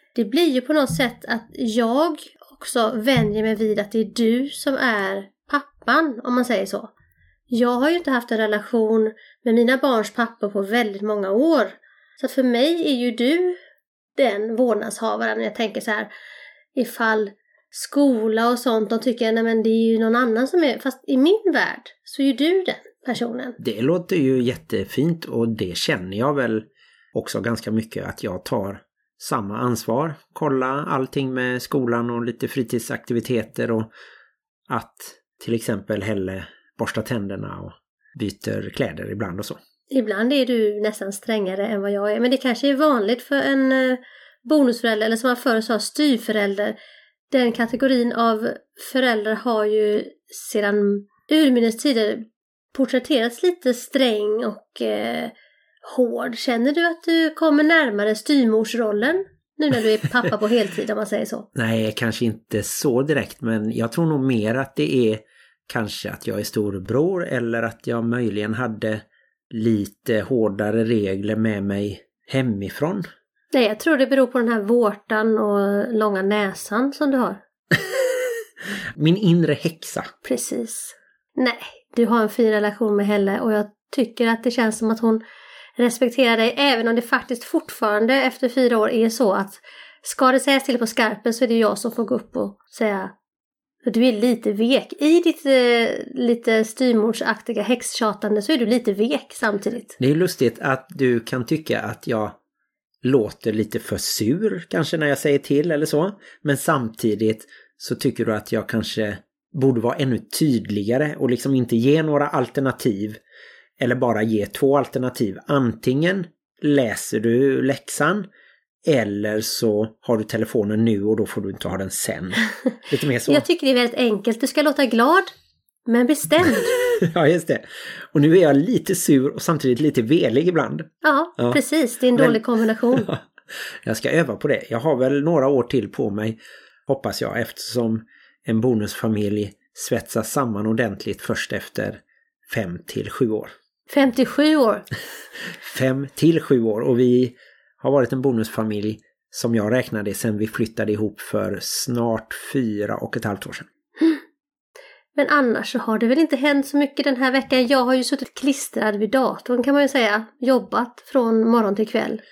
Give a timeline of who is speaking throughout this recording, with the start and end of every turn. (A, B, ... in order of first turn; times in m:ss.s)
0:00.2-0:06.9 A
0:07.5-0:13.6 A
0:14.2-0:16.1 A
0:16.8-0:23.6 A
0:23.6-0:33.9 B
0:34.7-0:39.6 B
0:39.9-0:46.8 A
0:47.3-1:01.5 A
1:01.6-1:13.1 B
1:13.5-1:17.4 A
1:17.7-1:18.1 B
1:19.0-1:20.1 B
1:20.2-1:25.2 A
1:25.8-1:33.1 A
1:33.8-1:40.0 A
1:40.0-1:42.4 B
1:43.0-1:53.2 B
1:53.8-1:58.3 B
1:58.8-2:03.5 B
2:03.3-2:05.3 A
2:05.9-2:06.7 A
2:06.7-2:11.6 B
2:11.0-2:13.1 A
2:12.2-2:23.5 B
2:23.9-2:24.9 A
2:25.5-2:33.7 B
2:35.2-2:42.2 A